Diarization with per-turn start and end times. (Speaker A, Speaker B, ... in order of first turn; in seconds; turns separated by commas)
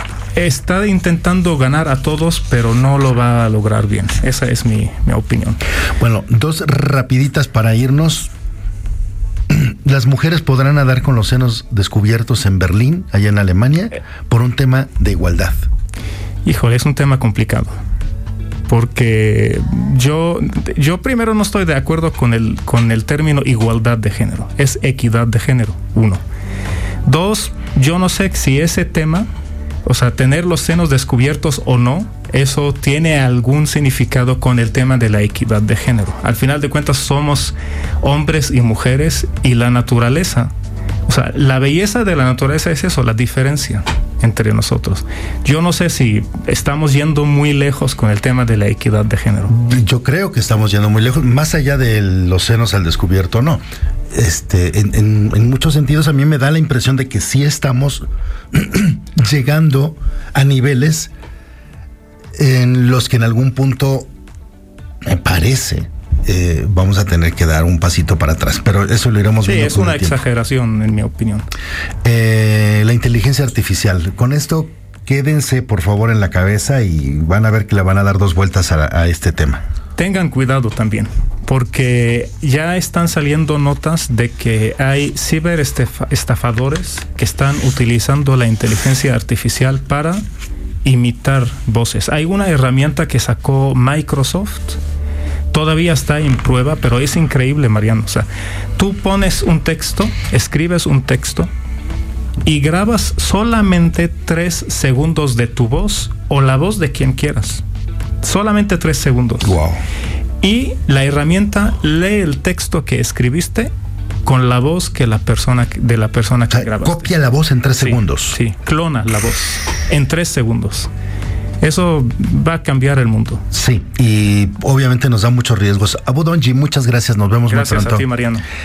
Speaker A: 0.4-5.6, Speaker B: 6.0-8.3, Speaker B: 9.5-15.6, Speaker A: 16.4-17.7, Speaker A: 18.7-26.2, Speaker A: 27.1-29.3, Speaker A: 29.9-40.5, Speaker A: 41.1-49.5, Speaker B: 49.5-53.6, Speaker B: 54.1-61.1, Speaker B: 62.4-64.1, Speaker B: 65.1-70.2, Speaker A: 69.4-71.5, Speaker B: 72.0-79.6, Speaker A: 80.0-90.2, Speaker A: 90.8-94.8, Speaker A: 95.5-98.3, Speaker A: 98.8-101.5, Speaker A: 102.5-107.6, Speaker A: 108.2-109.6, Speaker B: 109.4-109.8, Speaker A: 110.4-113.7, Speaker A: 114.2-117.1, Speaker B: 116.5-118.4, Speaker A: 117.8-120.9, Speaker A: 121.6-123.5, Speaker B: 123.5-128.1, Speaker A: 127.5-128.4